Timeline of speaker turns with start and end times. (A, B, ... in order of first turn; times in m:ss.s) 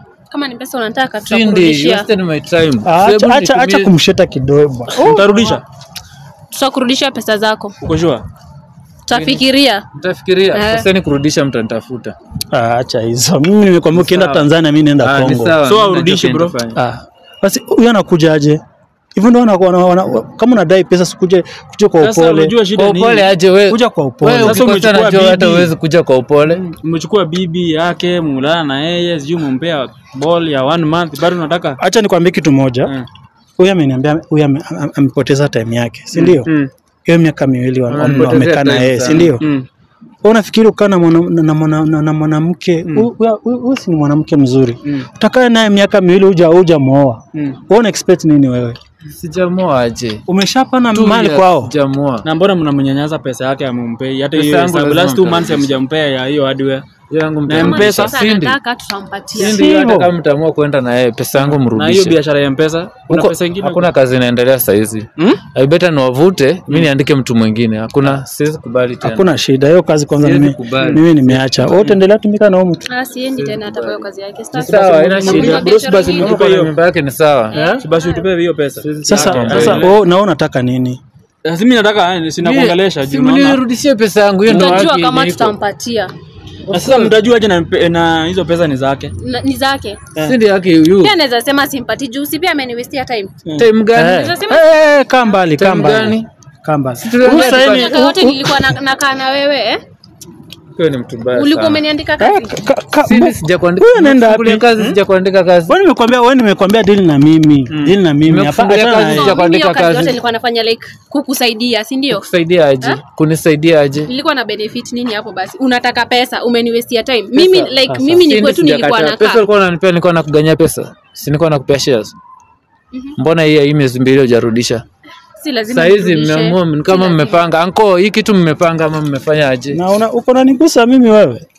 0:00.3-0:02.1 A
0:01.2-0:03.9 B
0:02.8-0:05.6 C
0:05.0-0:05.6 D
0:06.5-0:07.7 A
0:07.8-0:08.2 D
0:09.1-0:09.8 A
0:09.1-0:12.2 B
0:10.5-0:10.9 A
0:12.5-0:15.6 C
0:13.9-0:14.5 B
0:15.0-0:16.8 B
0:15.6-0:16.6 D
0:16.8-0:18.6 C
0:19.2-0:22.5 C
0:22.0-0:23.3 D
0:22.8-0:26.6 B
0:23.7-0:25.7 C
0:24.4-0:25.5 D
0:26.5-0:31.8 D
0:31.8-0:32.9 C
0:33.6-0:36.5 C
0:36.1-0:36.7 D
0:37.1-0:39.4 C
0:37.9-0:39.4 B
0:38.0-0:38.4 D
0:39.3-0:39.7 D
0:40.2-0:48.8 C
0:49.1-0:50.2 B
0:50.3-0:51.7 C
0:50.9-0:52.3 B
0:52.2-0:56.8 D
0:54.3-0:55.7 B
0:57.1-0:58.6 B
0:57.5-0:58.2 D
0:57.6-0:59.6 A
0:59.3-1:02.2 B
0:59.4-1:00.1 C
1:01.4-1:03.9 D
1:03.1-1:09.3 B
1:09.0-1:12.9 C
1:10.2-1:11.8 B
1:12.9-1:16.4 A
1:13.3-1:17.6 B
1:14.7-1:16.7 D
1:15.3-1:15.7 C
1:17.5-1:18.2 A
1:17.5-1:17.8 C
1:17.8-1:20.0 D
1:18.8-1:19.9 B
1:19.0-1:21.0 C
1:21.4-1:23.6 D
1:22.4-1:25.6 B
1:24.5-1:26.1 A
1:24.5-1:24.9 D
1:26.7-1:27.2 B
1:26.7-1:29.1 D
1:29.2-1:30.1 A
1:30.2-1:31.2 B
1:31.0-1:33.3 A
1:33.6-1:34.3 B
1:33.9-1:38.8 C
1:34.2-1:35.3 A
1:35.6-1:36.3 B
1:37.0-1:38.0 B
1:37.2-1:39.8 A
1:40.8-1:41.8 B
1:41.3-1:42.6 A
1:42.2-1:45.0 C
1:43.0-1:45.7 B
1:45.7-1:49.4 C
1:47.7-1:48.0 D
1:48.2-1:50.2 B
1:49.0-1:52.3 A
1:52.1-1:54.1 B
1:54.1-1:59.4 A
1:57.4-2:02.2 B
2:03.2-2:04.8 B
2:05.4-2:07.4 A
2:05.7-2:09.8 B
2:09.7-2:11.4 C